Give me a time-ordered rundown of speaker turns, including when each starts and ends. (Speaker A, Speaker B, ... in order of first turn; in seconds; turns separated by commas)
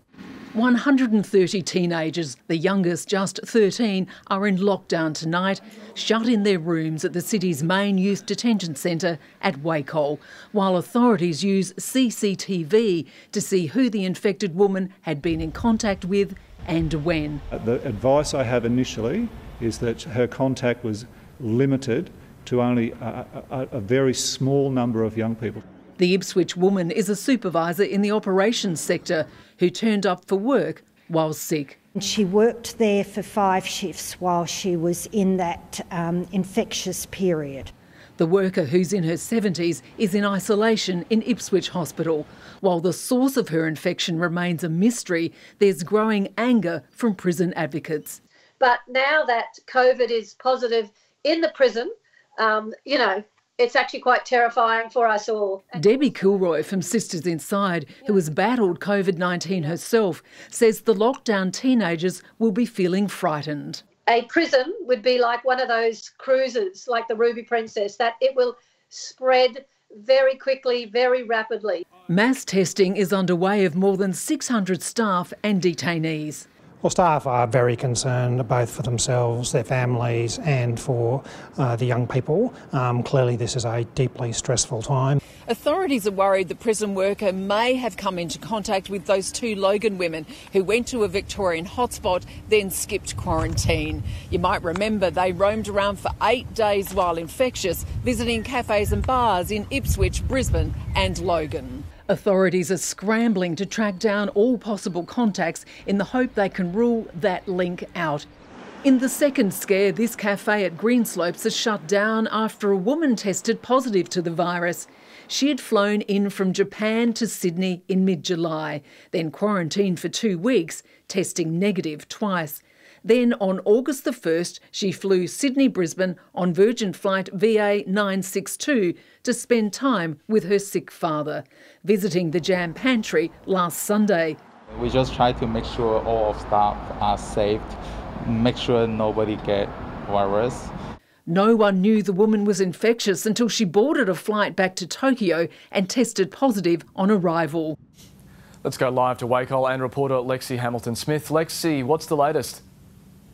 Speaker A: 0.5-17.4, Speaker B: 17.5-25.6, Speaker A: 26.0-31.8, Speaker C: 32.0-37.7, Speaker A: 38.2-48.2, Speaker D: 48.6-55.7, Speaker A: 55.7-63.9, Speaker D: 64.1-71.8, Speaker A: 72.1-76.5, Speaker E: 76.8-85.2, Speaker A: 85.5-108.3, Speaker A: 108.8-134.4, Speaker F: 134.8-140.7, Speaker A: 141.3-147.8, Speaker G: 148.6-152.6